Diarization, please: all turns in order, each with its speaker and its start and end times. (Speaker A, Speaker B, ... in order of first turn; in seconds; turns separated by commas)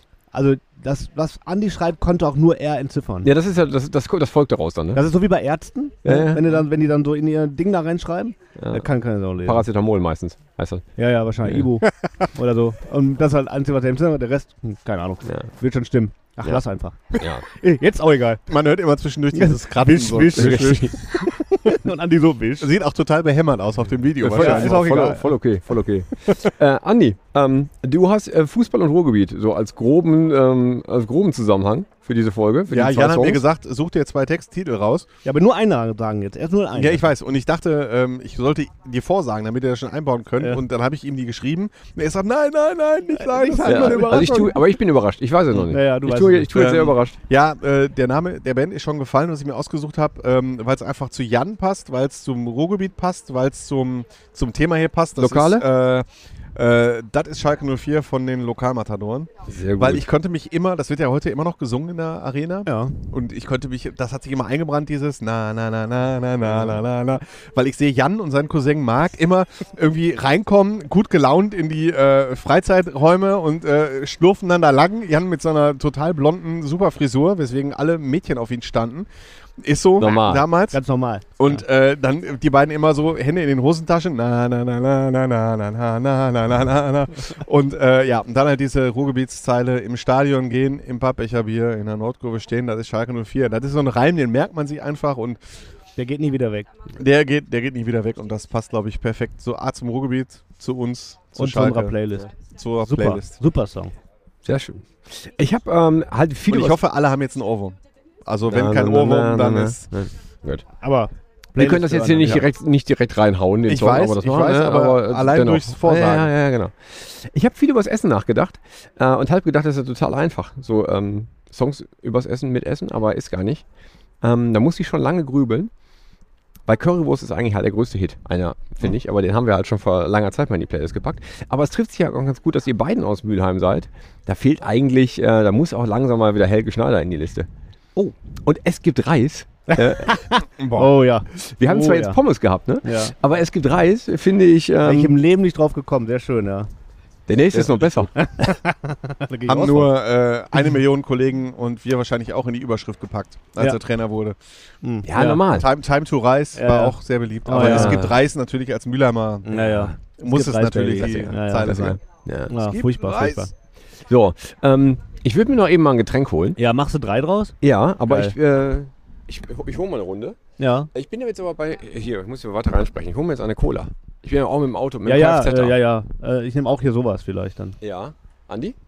Speaker A: 0.3-3.3, Speaker B: 3.2-5.0, Speaker A: 4.9-9.7, Speaker B: 6.0-6.6, Speaker B: 8.6-8.9, Speaker B: 9.4-10.8, Speaker A: 11.0-18.4, Speaker B: 17.2-17.4, Speaker C: 18.5-21.7, Speaker A: 19.3-22.7, Speaker B: 20.3-20.9, Speaker C: 22.6-25.0, Speaker B: 24.2-33.5, Speaker A: 24.3-25.4, Speaker C: 32.7-35.1, Speaker A: 35.2-37.1, Speaker C: 36.8-44.5, Speaker A: 43.1-44.7, Speaker B: 43.6-47.2, Speaker A: 45.7-46.5, Speaker C: 46.5-79.1, Speaker B: 55.2-55.7, Speaker B: 59.5-60.1, Speaker A: 62.7-63.0, Speaker C: 79.6-80.8, Speaker B: 80.0-80.5, Speaker A: 80.7-81.6, Speaker C: 81.4-95.4, Speaker A: 96.0-96.7, Speaker C: 97.0-103.4, Speaker A: 101.4-102.3, Speaker A: 102.8-103.9, Speaker B: 104.4-106.8, Speaker C: 106.5-110.0, Speaker B: 108.5-110.7, Speaker A: 110.8-112.5, Speaker B: 111.6-123.6, Speaker C: 113.7-116.3, Speaker B: 124.2-125.7, Speaker B: 126.7-137.5, Speaker B: 138.4-140.2, Speaker A: 139.7-142.2, Speaker C: 140.6-141.0, Speaker B: 141.4-145.2, Speaker A: 142.8-143.2, Speaker A: 144.8-146.7, Speaker B: 147.3-148.1, Speaker A: 147.6-149.9, Speaker C: 149.5-154.4, Speaker A: 154.8-155.4, Speaker B: 155.0-155.7, Speaker C: 155.4-162.0, Speaker A: 156.6-158.1, Speaker B: 157.6-158.2, Speaker A: 159.4-161.9, Speaker B: 159.6-159.9, Speaker B: 160.9-162.8, Speaker A: 162.5-163.5, Speaker C: 162.6-163.5, Speaker B: 164.0-166.6, Speaker A: 166.6-168.4, Speaker B: 167.6-170.4, Speaker A: 170.6-170.9, Speaker B: 170.9-175.8, Speaker A: 175.0-177.8, Speaker B: 177.8-178.8